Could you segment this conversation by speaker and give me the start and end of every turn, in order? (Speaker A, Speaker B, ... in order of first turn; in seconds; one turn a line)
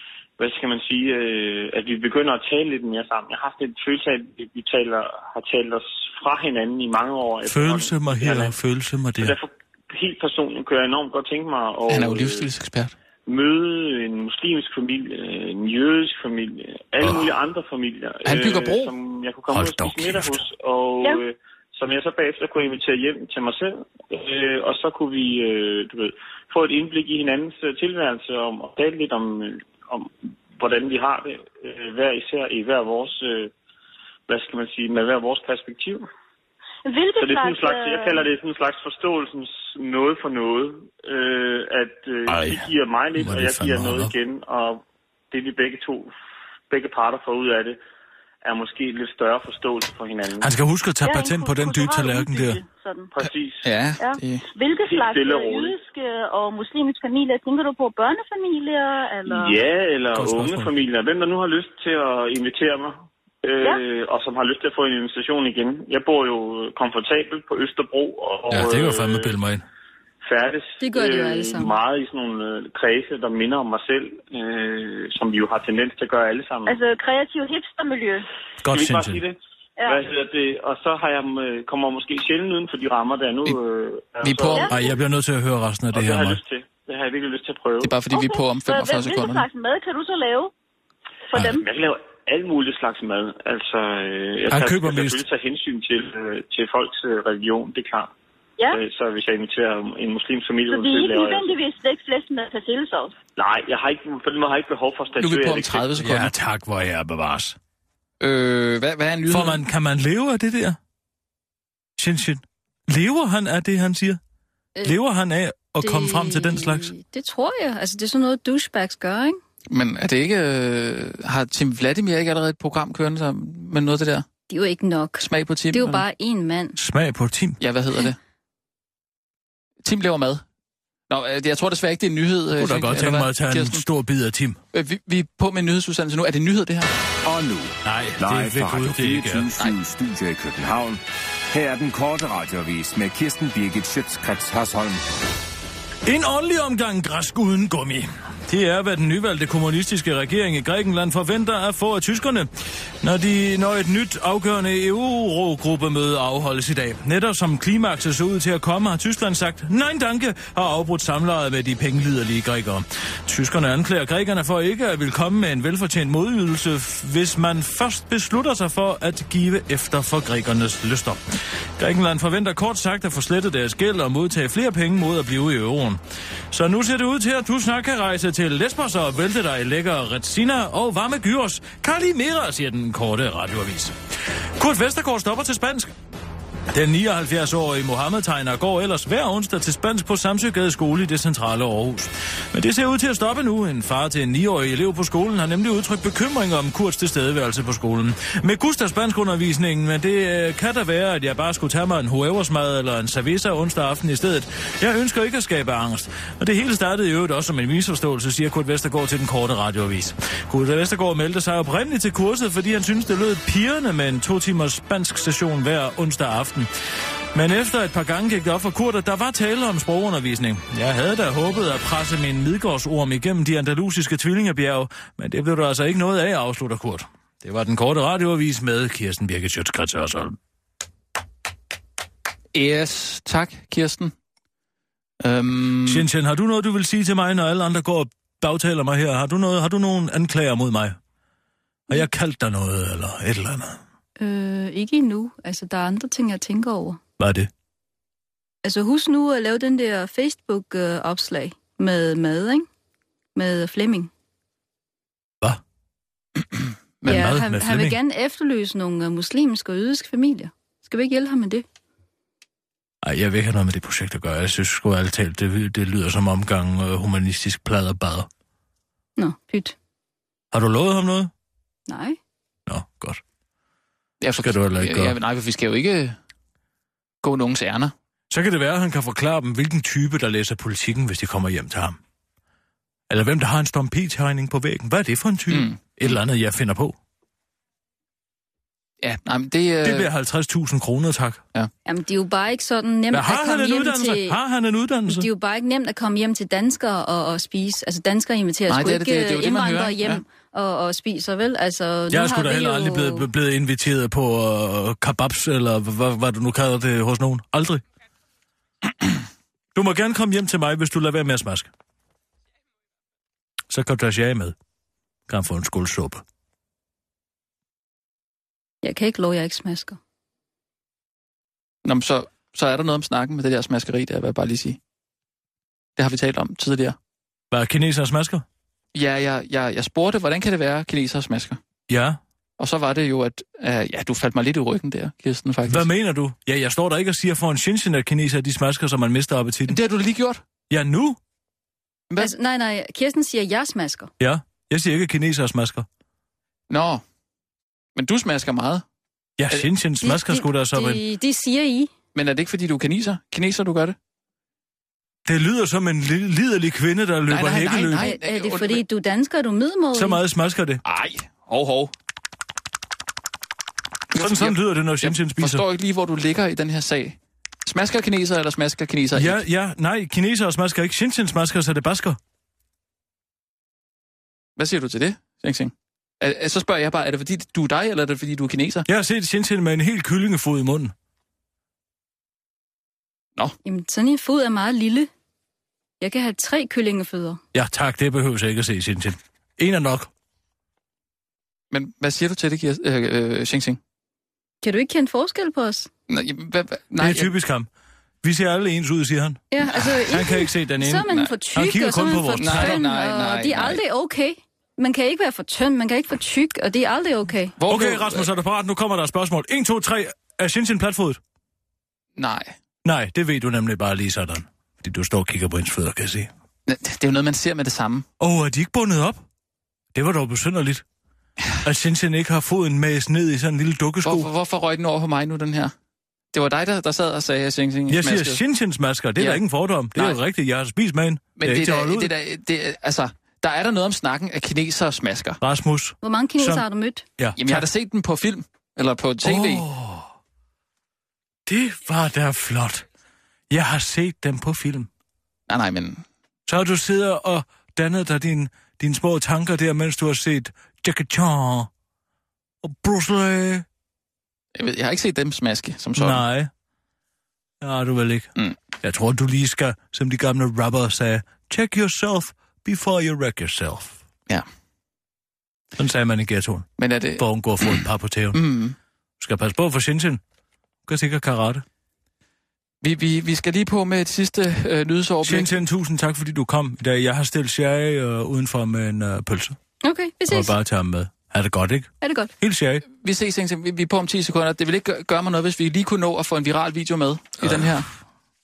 Speaker A: 0.4-8.5
Speaker B: 7.5-9.3
Speaker A: 9.2-12.5
Speaker C: 11.9-12.9
Speaker A: 13.3-33.5
Speaker B: 17.0-17.3
Speaker C: 18.2-18.9
Speaker B: 19.5-20.4
Speaker A: 34.3-36.0
Speaker D: 36.8-38.2
Speaker A: 37.2-46.1
Speaker B: 42.3-44.1
Speaker A: 46.7-47.8
Speaker A: 48.4-50.5
Speaker B: 50.4-52.6
Speaker D: 51.0-53.1
Speaker A: 53.1-53.6
Speaker C: 53.6-54.5
Speaker D: 54.0-59.6
Speaker A: 54.8-55.7
Speaker A: 59.3-69.3
Speaker B: 60.1-60.7
Speaker B: 68.5-69.6
Speaker A: 70.2-76.8
Speaker E: 70.8-71.7
Speaker D: 76.7-78.2
Speaker B: 78.6-79.2
Speaker A: 78.7-84.9
Speaker C: 84.2-84.7
Speaker D: 84.5-84.8
Speaker B: 84.6-86.4
Speaker A: 85.9-88.0
Speaker C: 87.8-89.5
Speaker D: 88.1-90.5
Speaker D: 91.3-91.6
Speaker A: 91.4-98.1
Speaker B: 94.5-95.2
Speaker A: 98.7-101.5
Speaker D: 100.7-103.2
Speaker A: 103.4-106.0
Speaker C: 105.2-106.3
Speaker B: 106.0-107.6
Speaker C: 108.2-109.6
Speaker B: 109.3-110.8
Speaker B: 112.0-114.2
Speaker B: 114.8-116.9
Speaker E: 115.8-119.4
Speaker C: 119.7-124.2
Speaker E: 124.5-126.8
Speaker C: 125.2-126.0
Speaker B: 126.8-127.6
Speaker C: 127.6-128.2
Speaker C: 129.8-130.4
Speaker C: 131.1-133.8
Speaker B: 132.5-134.6
Speaker C: 134.7-136.9
Speaker F: 137.2-145.0
Speaker B: 137.8-139.5
Speaker B: 146.1-152.5
Speaker B: 153.0-176.0
Speaker B: 176.5-183.9
Speaker B: 184.6-185.9
Speaker B: 186.7-216.7
Speaker B: 217.3-230.4
Speaker C: 232.5-234.1
Speaker C: 235.2-236.0
Speaker B: 235.8-241.0
Speaker B: 241.9-243.8
Speaker E: 244.2-247.0
Speaker B: 247.2-247.5
Speaker E: 248.6-252.7
Speaker E: 253.3-254.1
Speaker C: 256.5-257.3
Speaker E: 257.1-261.6
Speaker B: 257.1-258.0
Speaker B: 263.0-268.3
Speaker E: 269.2-269.8
Speaker B: 270.5-271.3
Speaker E: 271.9-272.2
Speaker B: 272.7-273.2
Speaker C: 274.2-276.2
Speaker B: 274.3-275.1
Speaker C: 277.2-277.9
Speaker B: 278.3-282.0
Speaker B: 283.1-286.9
Speaker C: 285.5-286.1
Speaker C: 289.0-290.1
Speaker B: 289.8-291.4
Speaker E: 291.8-294.4
Speaker B: 293.1-295.3
Speaker E: 295.1-303.3
Speaker C: 298.7-300.2
Speaker B: 302.1-307.8
Speaker B: 309.7-311.7
Speaker B: 313.7-314.5
Speaker B: 315.3-316.2
Speaker E: 318.8-320.0
Speaker C: 321.8-324.8
Speaker C: 326.0-326.9
Speaker B: 327.5-328.4
Speaker C: 328.9-331.6
Speaker B: 331.9-332.2
Speaker C: 332.6-335.9
Speaker B: 335.7-339.8
Speaker C: 339.7-340.4
Speaker B: 340.7-341.2
Speaker E: 342.2-344.1
Speaker B: 344.2-345.9
Speaker C: 346.7-347.0
Speaker C: 347.9-348.8
Speaker B: 349.4-351.0
Speaker E: 350.0-351.9
Speaker C: 352.1-353.9
Speaker B: 355.2-358.1
Speaker C: 357.3-358.8
Speaker E: 357.9-360.2
Speaker B: 359.9-360.8
Speaker C: 360.8-361.9
Speaker C: 364.1-369.4
Speaker B: 364.1-365.6
Speaker B: 369.1-372.2
Speaker C: 374.6-378.9
Speaker B: 378.9-380.9
Speaker E: 383.6-385.1
Speaker E: 386.0-387.4
Speaker B: 387.5-390.1
Speaker C: 391.7-393.8
Speaker E: 394.6-395.9
Speaker C: 396.1-397.3
Speaker B: 397.0-397.7
Speaker B: 398.2-402.8
Speaker E: 399.5-407.6
Speaker C: 402.4-403.8
Speaker C: 407.6-408.3
Speaker B: 407.6-411.2
Speaker C: 412.1-412.5
Speaker B: 412.8-416.3
Speaker C: 416.7-418.1
Speaker B: 418.2-419.2
Speaker B: 419.9-420.8
Speaker B: 421.6-424.3
Speaker C: 424.0-425.7
Speaker C: 426.3-428.4
Speaker B: 427.9-432.1
Speaker C: 429.1-430.2
Speaker C: 431.4-435.4
Speaker B: 435.4-436.6
Speaker E: 436.0-437.1
Speaker B: 437.2-437.6
Speaker C: 437.4-439.6
Speaker B: 439.2-440.1
Speaker B: 441.4-442.8
Speaker B: 443.5-444.9
Speaker C: 445.5-446.0
Speaker B: 446.5-451.7
Speaker B: 452.6-453.6
Speaker C: 454.5-456.2
Speaker B: 455.9-456.5
Speaker B: 457.6-458.3
Speaker B: 458.8-464.0
Speaker B: 465.8-468.4
Speaker C: 466.8-467.8
Speaker C: 468.3-468.8
Speaker B: 469.2-470.2
Speaker B: 470.9-471.6
Speaker C: 472.8-475.6
Speaker B: 475.2-479.6
Speaker E: 479.8-480.6
Speaker B: 480.3-482.8
Speaker E: 482.0-482.3
Speaker C: 482.9-487.9
Speaker B: 487.4-487.8